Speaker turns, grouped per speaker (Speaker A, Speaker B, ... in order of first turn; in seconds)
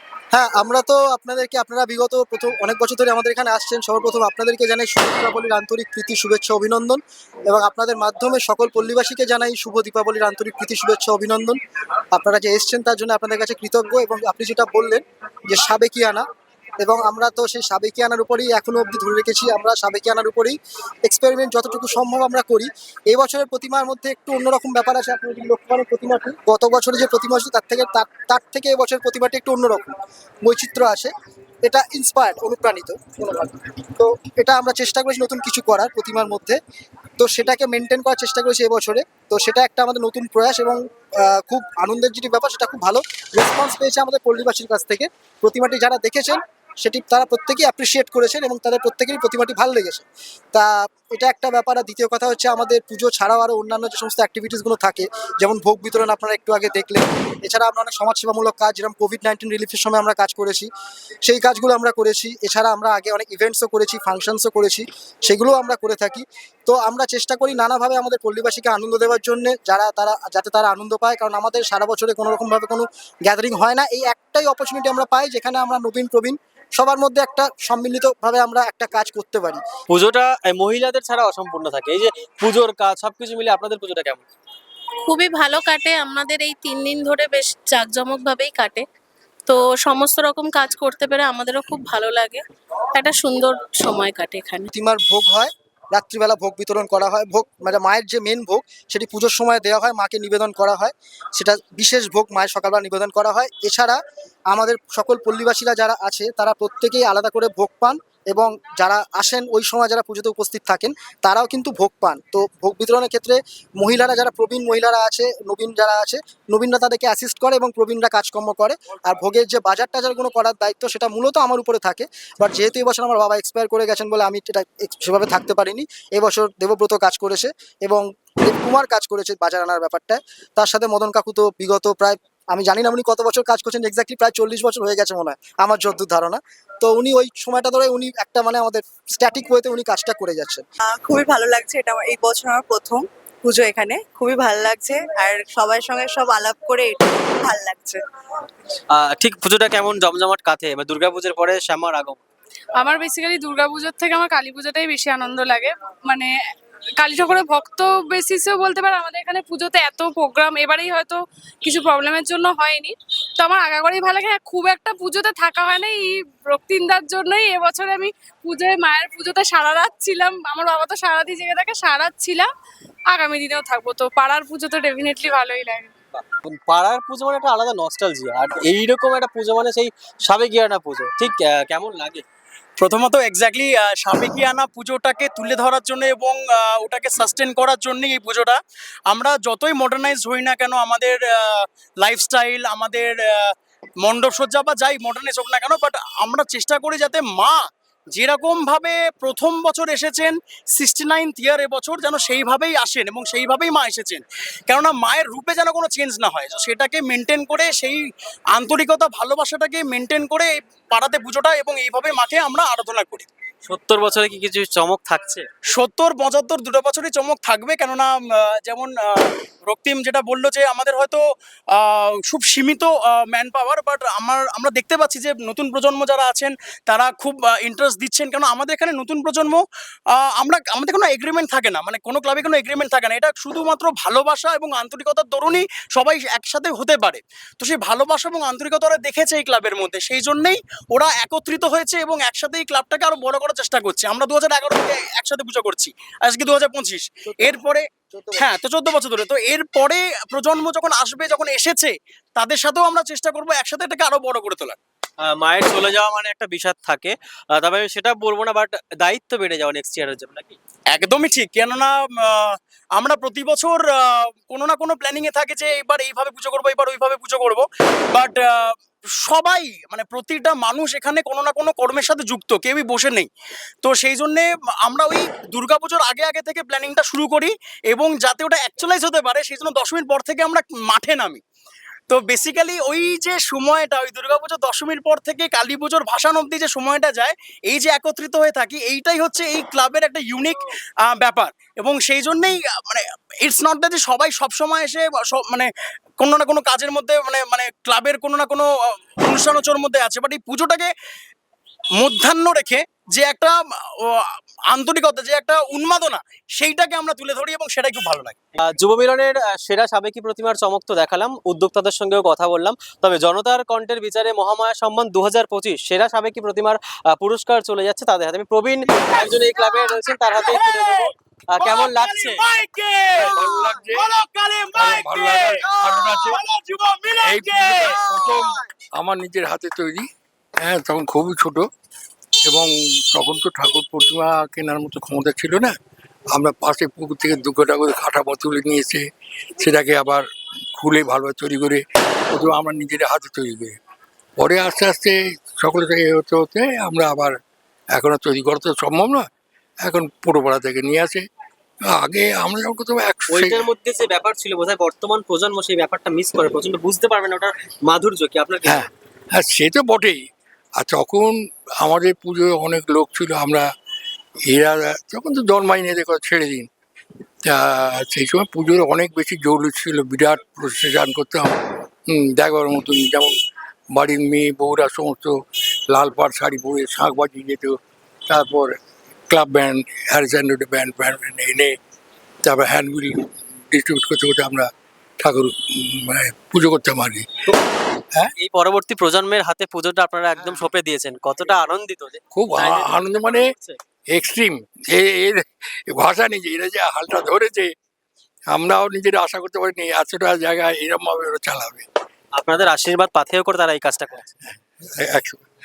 Speaker A: 0.3-11.6, 12.1-16.2, 16.8-31.1, 31.6-36.6, 37.2-60.7, 61.2-79.6, 94.7-104.0, 104.5-140.6, 247.3-247.6, 248.1-248.5
Speaker B: 79.9-84.2, 148.9-152.2, 176.2-182.2, 213.7-215.4, 255.2-260.6, 308.6-322.4, 353.3-358.9, 388.4-393.8, 402.4-404.3
Speaker C: 85.0-88.8, 89.5-94.7
Speaker D: 140.8-148.0
Speaker E: 152.8-156.3, 157.0-172.5, 173.1-175.9
Speaker F: 182.8-188.6, 189.1-193.5, 194.0-197.6, 198.1-208.0, 208.5-213.3, 215.7-221.2, 221.8-229.6, 230.2-247.8, 248.4-254.8, 260.9-273.3, 273.8-281.4, 282.1-295.7, 296.2-300.9, 302.0-308.4, 320.4-320.9, 321.6-328.6
Speaker G: 323.2-324.1, 324.7-326.4, 327.2-330.1, 330.6-331.6, 332.4-335.7, 336.3-339.0, 339.6-340.2, 340.8-343.8, 344.4-347.3, 347.9-349.3, 349.8-351.2, 351.9-353.6, 358.6-360.2, 360.8-363.7, 364.5-366.7, 367.4-371.5, 372.1-373.3, 373.9-375.3, 375.9-377.8, 378.3-378.7, 379.3-381.7, 382.4-384.7, 385.2-387.2, 390.4-390.7, 392.3-393.5, 394.1-397.7, 398.5-401.8, 405.0-405.4